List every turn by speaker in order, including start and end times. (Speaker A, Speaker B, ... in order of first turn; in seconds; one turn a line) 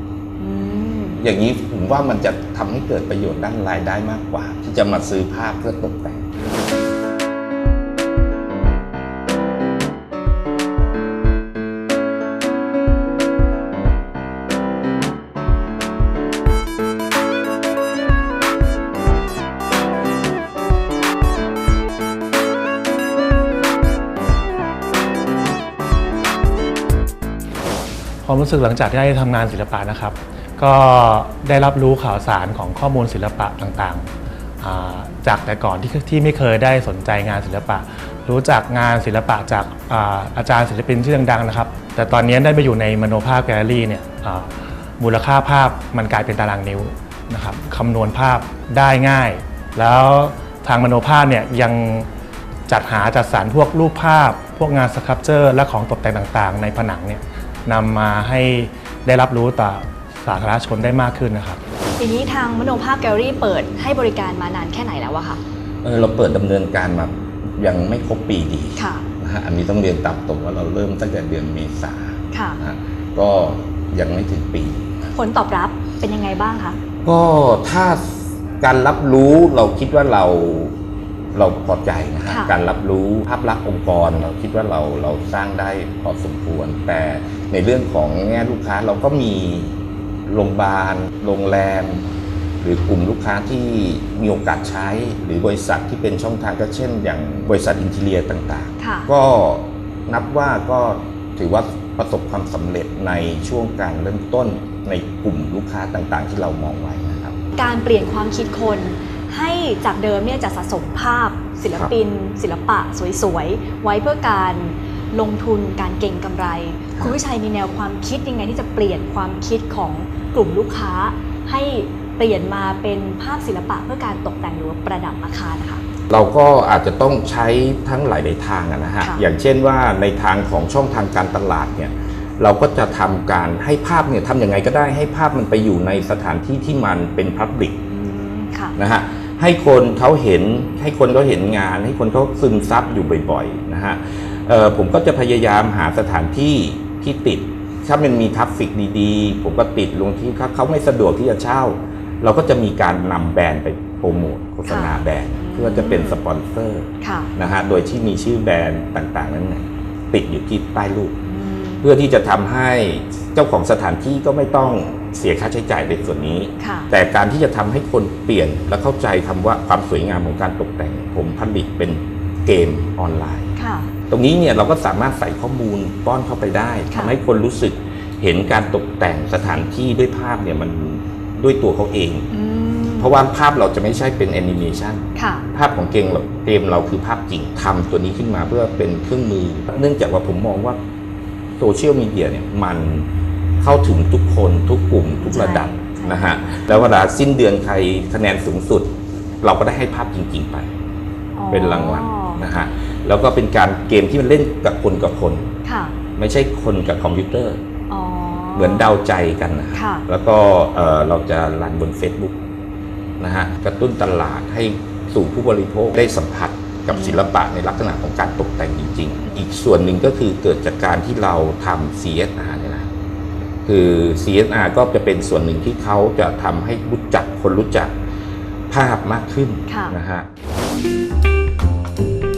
Speaker A: 0.4-1.2
Speaker B: 1.2-6.4
Speaker C: 28.2-52.1
Speaker C: 52.7-61.6
Speaker A: 62.0-65.4
Speaker B: 65.8-75.1
Speaker A: 68.8-69.1
Speaker A: 72.3-72.6
Speaker A: 75.1-76.8
Speaker B: 77.0-80.8
Speaker B: 81.3-92.1
Speaker A: 82.3-82.5
Speaker B: 92.6-107.4
Speaker A: 98.8-99.1
Speaker A: 107.6-125.8
Speaker B: 126.1-137.8
Speaker A: 137.9-138.8
Speaker B: 138.8-161.2
Speaker A: 154.7-156.2
Speaker A: 157.0-157.3
Speaker A: 161.2-161.9
Speaker B: 161.8-173.5
Speaker A: 166.6-166.9
Speaker A: 173.6-173.9
Speaker B: 174.1-182.3
Speaker A: 176.9-177.2
Speaker A: 182.3-183.2
Speaker B: 183.0-190.8
Speaker A: 185.2-185.5
Speaker B: 191.6-200.7
Speaker A: 195.2-196.9
Speaker A: 201.3-202.4
Speaker B: 201.5-205.5
Speaker A: 205.7-206.0
Speaker B: 206.2-207.6
Speaker A: 207.9-208.9
Speaker B: 208.6-212.4
Speaker A: 209.7-210.1
Speaker B: 213.2-222.9
Speaker A: 216.9-217.2
Speaker B: 223.7-227.9
Speaker B: 228.7-230.3
Speaker A: 229.7-229.9